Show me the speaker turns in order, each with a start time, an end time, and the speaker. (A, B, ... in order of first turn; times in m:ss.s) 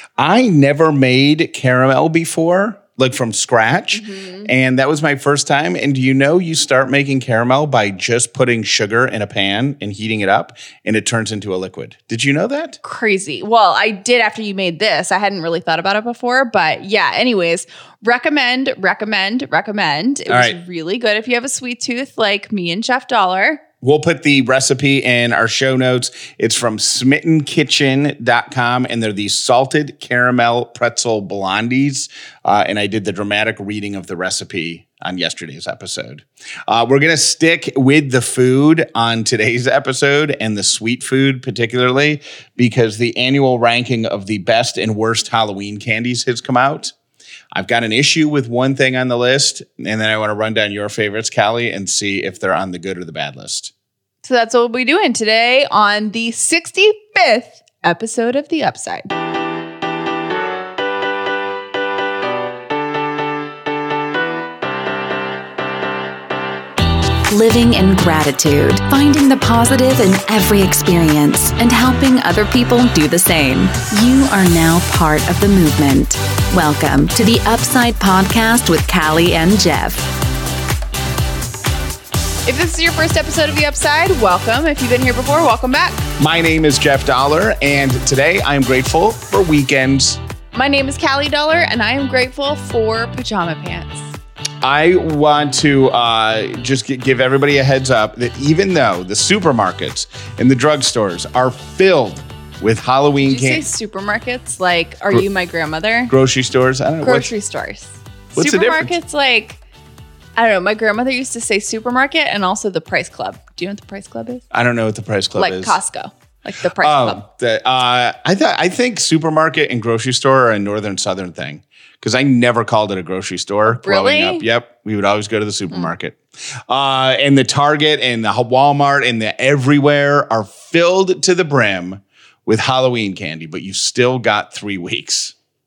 0:00.2-0:12.8 A
0:03.9-0:04.5 B
0:12.8-0:23.6 B
0:20.3-0:20.6 A
0:23.8-0:46.9 A
0:47.5-0:53.7 A
0:54.2-0:59.1 B
1:07.3-1:20.1 C
1:22.5-1:26.0 B
1:26.2-1:30.2 A
1:30.5-1:34.2 B
1:34.6-1:43.7 A
1:43.2-1:46.1 B
1:46.1-1:47.3 A
1:47.0-1:49.6 B
1:48.3-1:48.9 A
1:50.4-1:54.4 B
1:54.5-1:55.8 A
1:55.4-1:57.2 B
1:56.8-2:15.4 A
2:03.7-2:04.4 B